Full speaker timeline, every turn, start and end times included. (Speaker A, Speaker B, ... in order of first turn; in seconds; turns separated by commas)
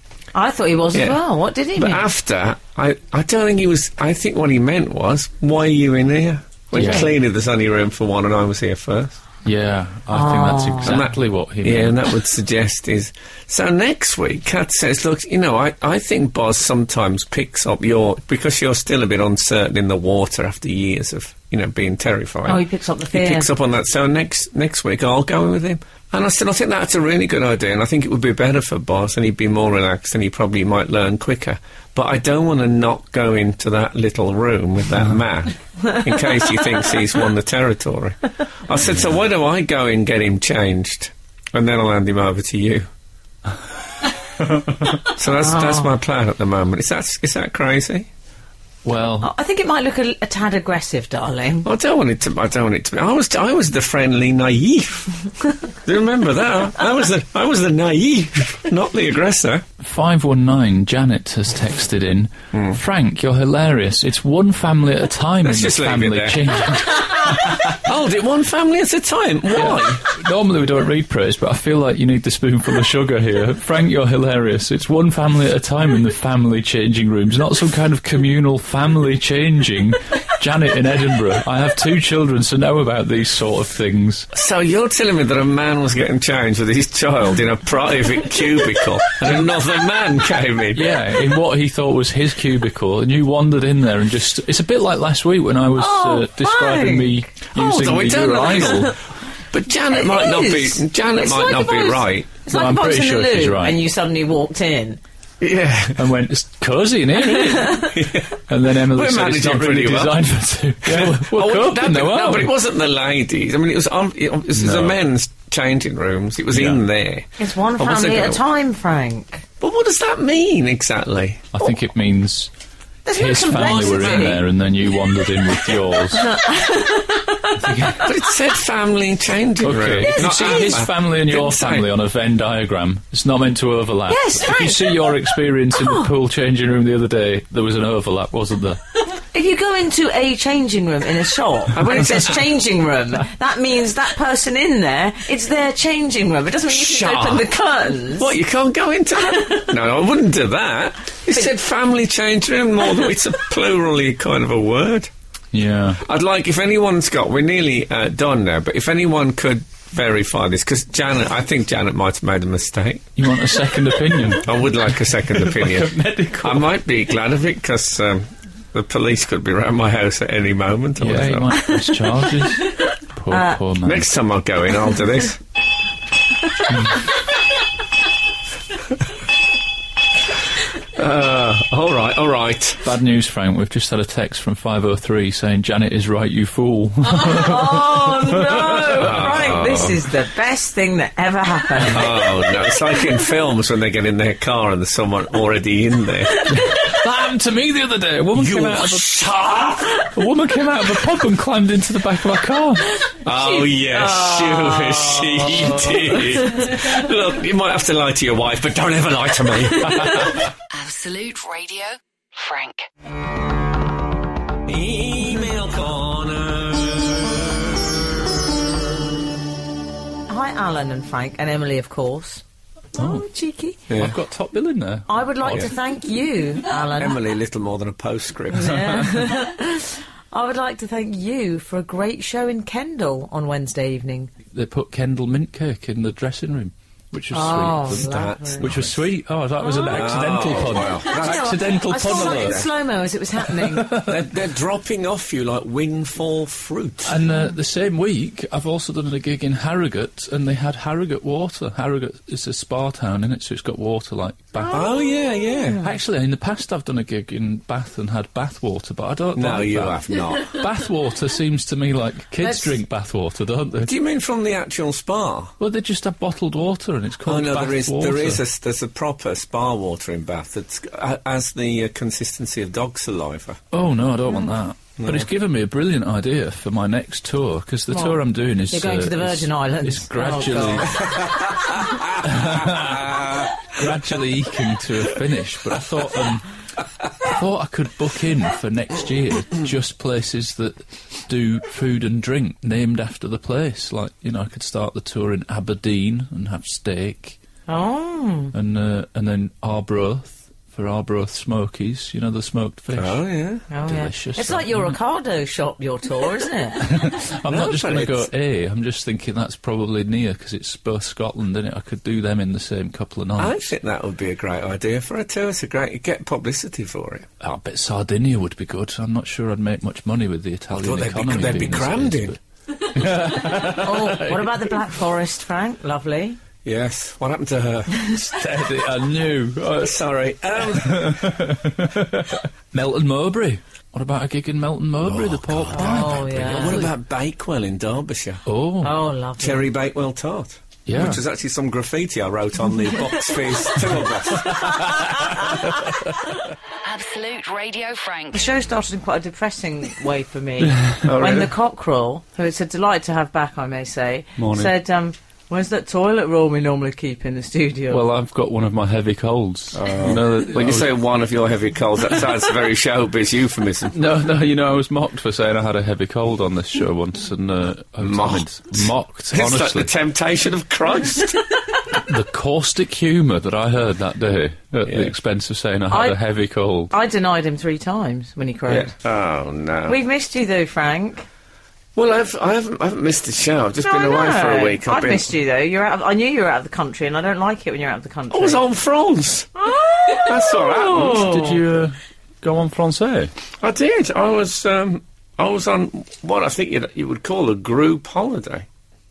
Speaker A: 0.3-2.1, Speaker B: 0.9-1.2, Speaker B: 1.8-9.2, Speaker A: 6.7-7.1, Speaker C: 6.8-7.1, Speaker C: 9.4-12.1, Speaker A: 10.1-11.0, Speaker B: 10.8-42.9, Speaker A: 22.5-23.5, Speaker B: 45.0-48.1, Speaker A: 45.3-45.9, Speaker C: 48.9-49.3, Speaker A: 49.2-51.7, Speaker B: 51.6-55.2, Speaker B: 55.8-59.6, Speaker C: 59.8-67.7, Speaker B: 62.5-62.8, Speaker B: 65.4-70.0, Speaker C: 69.5-84.3, Speaker B: 84.3-90.9, Speaker C: 90.8-98.9, Speaker A: 95.8-97.3, Speaker B: 97.5-99.0, Speaker B: 99.5-102.3, Speaker A: 99.9-105.0, Speaker C: 102.5-103.8, Speaker B: 105.4-106.1, Speaker C: 106.0-108.0, Speaker A: 107.6-107.9, Speaker B: 107.9-110.2, Speaker C: 108.5-112.5, Speaker B: 110.8-118.4, Speaker C: 114.5-115.0, Speaker C: 116.5-116.8, Speaker A: 117.4-119.4, Speaker B: 119.6-121.5, Speaker C: 121.5-122.5, Speaker A: 123.1-124.4, Speaker C: 123.1-126.3, Speaker B: 123.6-124.3, Speaker A: 126.1-127.9, Speaker C: 127.6-128.1, Speaker B: 128.0-131.9, Speaker C: 129.6-138.8, Speaker A: 134.1-135.2, Speaker A: 135.7-136.1, Speaker A: 139.1-148.3, Speaker B: 141.7-142.4, Speaker B: 146.7-147.5, Speaker B: 148.1-155.1, Speaker A: 149.3-149.7, Speaker C: 155.5-156.0, Speaker B: 156.0-163.1, Speaker C: 163.2-166.7, Speaker B: 164.3-171.6, Speaker C: 171.0-174.1, Speaker A: 171.7-173.6, Speaker B: 173.8-175.4, Speaker C: 176.7-177.0, Speaker B: 180.9-182.8, Speaker C: 182.8-189.6, Speaker A: 187.1-192.1, Speaker B: 189.0-190.0, Speaker B: 191.9-196.5, Speaker C: 196.5-199.2, Speaker B: 198.3-200.1, Speaker C: 200.1-202.9, Speaker A: 203.1-206.8, Speaker B: 203.2-210.2, Speaker D: 210.7-212.9, Speaker B: 214.7-218.2, Speaker A: 220.3-222.4, Speaker A: 222.9-223.8, Speaker C: 223.0-223.2, Speaker B: 223.9-224.2, Speaker C: 223.9-225.7, Speaker A: 225.1-227.2, Speaker B: 226.9-228.8, Speaker A: 228.5-234.3, Speaker C: 228.7-229.2, Speaker C: 234.5-242.7, Speaker A: 237.3-238.7, Speaker B: 237.9-239.0, Speaker A: 239.6-240.2, Speaker B: 239.9-242.7, Speaker A: 241.0-243.9, Speaker C: 243.5-244.2, Speaker B: 244.0-247.2, Speaker C: 247.1-254.9, Speaker A: 254.6-254.9, Speaker B: 254.7-255.8, Speaker C: 255.8-263.9, Speaker B: 259.4-260.6, Speaker A: 262.4-262.7, Speaker B: 263.8-265.6, Speaker C: 265.6-268.4, Speaker B: 267.2-273.6, Speaker C: 273.7-281.1, Speaker B: 275.0-275.3, Speaker A: 277.9-281.2, Speaker B: 281.0-283.8, Speaker C: 282.2-286.5, Speaker C: 287.2-297.4, Speaker A: 297.7-298.5, Speaker C: 298.5-303.2, Speaker B: 302.9-303.6, Speaker A: 303.7-306.9, Speaker C: 303.8-305.0, Speaker C: 306.8-313.7, Speaker B: 307.4-308.3, Speaker B: 313.4-317.3, Speaker C: 317.4-324.7, Speaker B: 320.7-322.4, Speaker A: 323.6-326.4, Speaker B: 326.6-328.0, Speaker C: 328.1-330.0, Speaker B: 329.8-331.4, Speaker C: 330.7-336.9, Speaker B: 335.0-338.4, Speaker A: 335.7-336.8, Speaker C: 338.5-339.0, Speaker A: 338.8-339.7, Speaker B: 339.4-344.7, Speaker C: 340.9-341.2, Speaker C: 344.6-345.1, Speaker D: 346.8-348.5, Speaker A: 348.3-358.0, Speaker C: 350.7-351.0, Speaker B: 351.0-351.5, Speaker C: 354.4-354.7, Speaker C: 357.9-361.0, Speaker B: 359.7-364.0, Speaker C: 363.9-369.9, Speaker B: 368.0-371.4, Speaker C: 372.0-376.9, Speaker B: 374.9-375.1, Speaker A: 375.9-376.2, Speaker A: 376.9-378.9, Speaker B: 378.7-380.0, Speaker A: 379.9-381.3, Speaker B: 381.9-385.3, Speaker A: 383.8-388.6, Speaker B: 388.3-389.5, Speaker A: 389.6-391.6, Speaker B: 390.1-391.2, Speaker C: 390.9-393.3, Speaker B: 393.6-398.7